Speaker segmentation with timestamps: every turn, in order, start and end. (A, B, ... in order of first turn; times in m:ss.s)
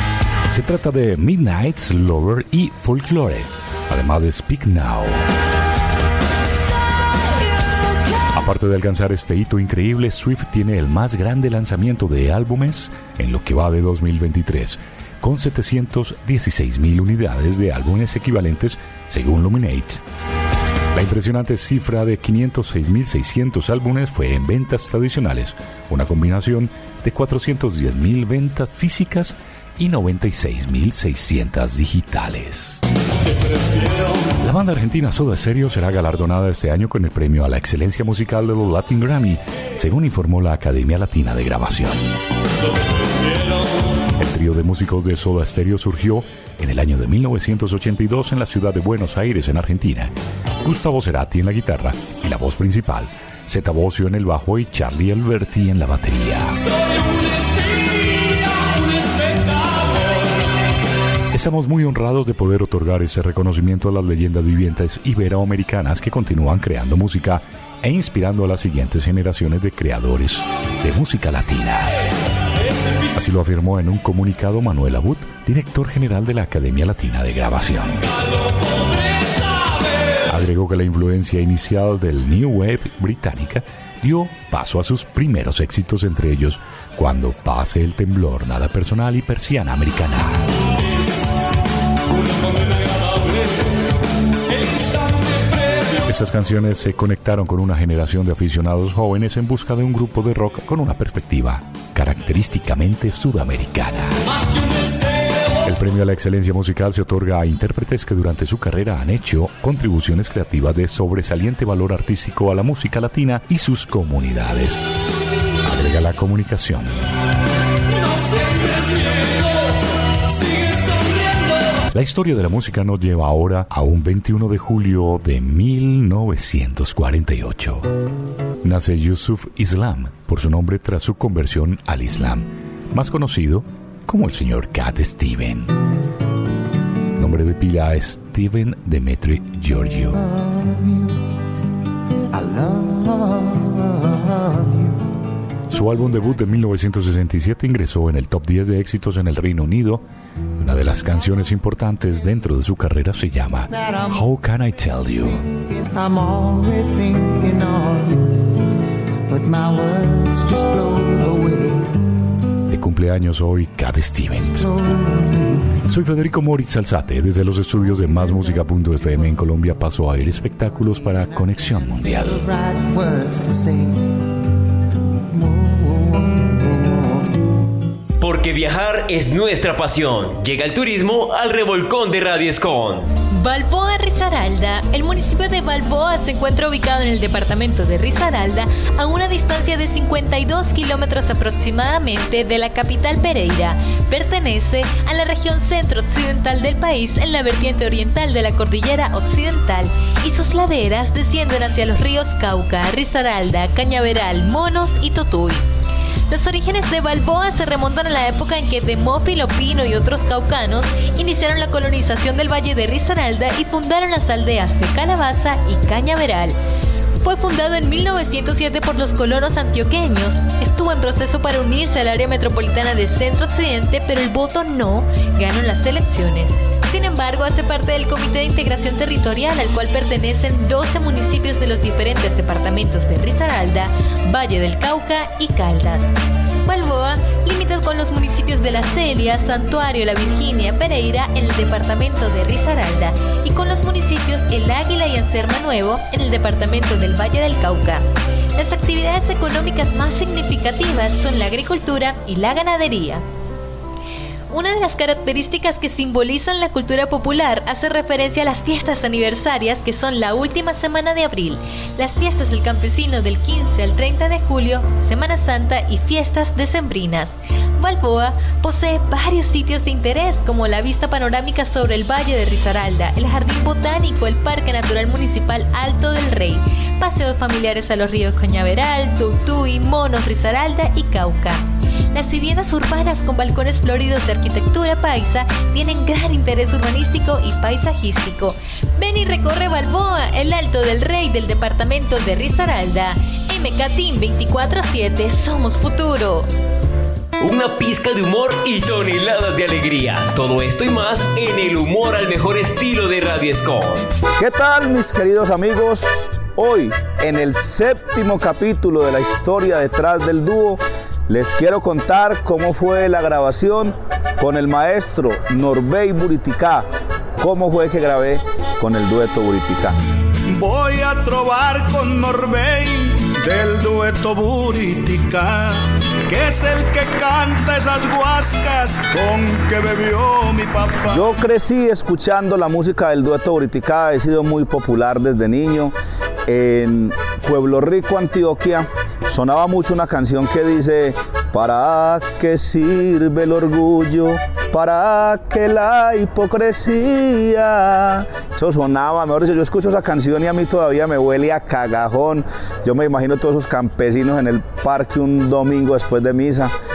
0:00.5-0:05.2 A
0:08.3-0:20.0 A
0:20.9-0:32.8 A
0:34.4-0:42.1 A
0:44.2-0:50.1 A
0:50.6-0:56.6 A
1:01.3-1:11.9 A
1:13.1-1:18.0 A
1:20.3-1:30.4 A
1:36.0-1:44.2 A
1:45.6-1:54.8 A
1:55.6-1:56.9 A
2:01.9-2:07.9 A
2:08.6-2:15.7 A
2:17.2-2:20.2 A
2:20.1-2:21.2 B
2:22.3-2:25.0 B
2:25.7-2:30.0 A
2:30.6-2:35.4 A
2:33.7-2:34.4 B
2:35.0-2:38.5 B
2:39.3-2:41.9 B
2:42.7-2:44.6 A
2:44.4-2:45.8 B
2:45.9-2:52.4 A
2:47.7-2:49.6 B
2:50.6-2:54.3 B
2:55.3-2:57.3 B
2:58.2-3:03.1 C
3:03.3-3:25.7 D
3:26.3-3:36.5 D
3:37.2-3:56.1 D
3:56.6-4:08.0 D
4:08.6-4:13.2 D
4:14.5-4:41.6 D
4:42.1-4:56.5 D
4:57.4-5:04.0 C
5:04.4-5:16.8 E
5:17.4-5:20.0 E
5:20.5-5:31.3 F
5:31.1-5:35.9 E
5:36.5-5:56.7 E